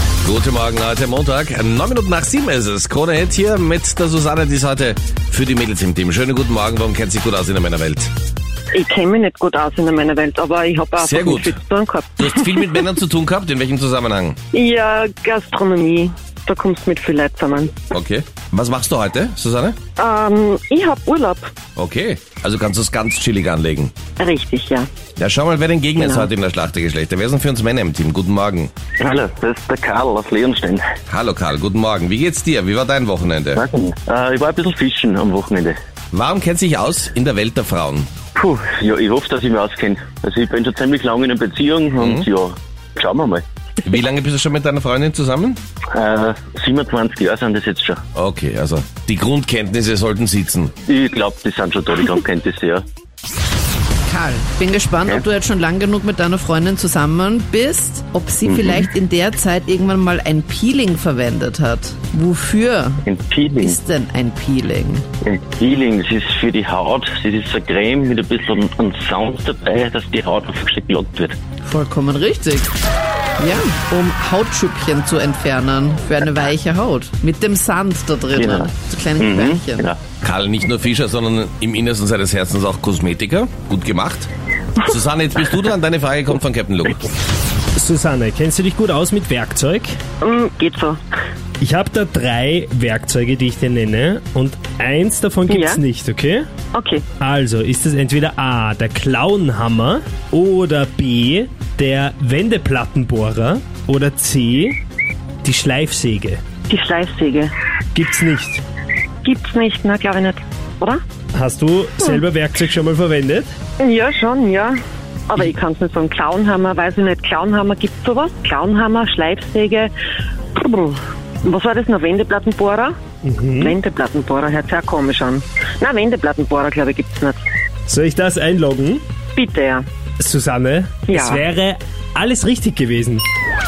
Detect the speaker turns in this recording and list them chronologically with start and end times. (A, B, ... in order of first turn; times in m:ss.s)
0:00.2-0:08.1 A
0:08.7-0:12.8 B
0:11.0-0:11.6 A
0:12.2-0:14.4 A
0:14.5-0:17.9 B
0:17.9-0:19.8 A
0:20.0-0:21.5 B
0:21.8-0:23.9 A
0:24.2-0:24.9 B
0:25.2-0:28.7 A
0:26.0-0:26.3 B
0:29.0-0:30.9 C
0:31.1-0:33.6 A
0:33.6-0:35.8 C
0:36.1-0:38.1 A
0:38.4-0:43.4 C
0:42.0-0:42.3 A
0:43.8-0:45.6 A
0:45.9-0:48.0 C
0:48.2-0:50.7 A
0:50.9-0:52.8 C
0:54.1-1:03.1 D
0:58.5-0:58.8 C
1:03.0-1:03.8 C
1:03.6-1:05.0 D
1:05.2-1:11.4 C
1:11.6-1:12.7 D
1:13.4-1:19.9 D
1:18.4-1:20.0 C
1:20.2-1:24.3 A
1:24.8-1:27.1 A
1:27.8-1:29.9 E
1:30.2-1:31.0 B
1:31.6-1:36.5 E
1:35.5-1:35.8 B
1:36.7-1:37.0 B
1:37.2-1:44.8 E
1:45.4-1:46.4 E
1:46.7-1:47.5 B
1:48.0-1:48.6 E
1:49.2-1:51.0 B
1:51.3-1:53.5 E
1:53.8-1:54.8 B
1:55.3-1:59.9 B
2:00.6-2:03.0 B
2:03.2-2:03.8 E
2:03.6-2:07.4 B
2:07.9-2:09.0 E
2:09.4-2:09.9 B
2:10.2-2:13.2 E
2:11.1-2:11.4 B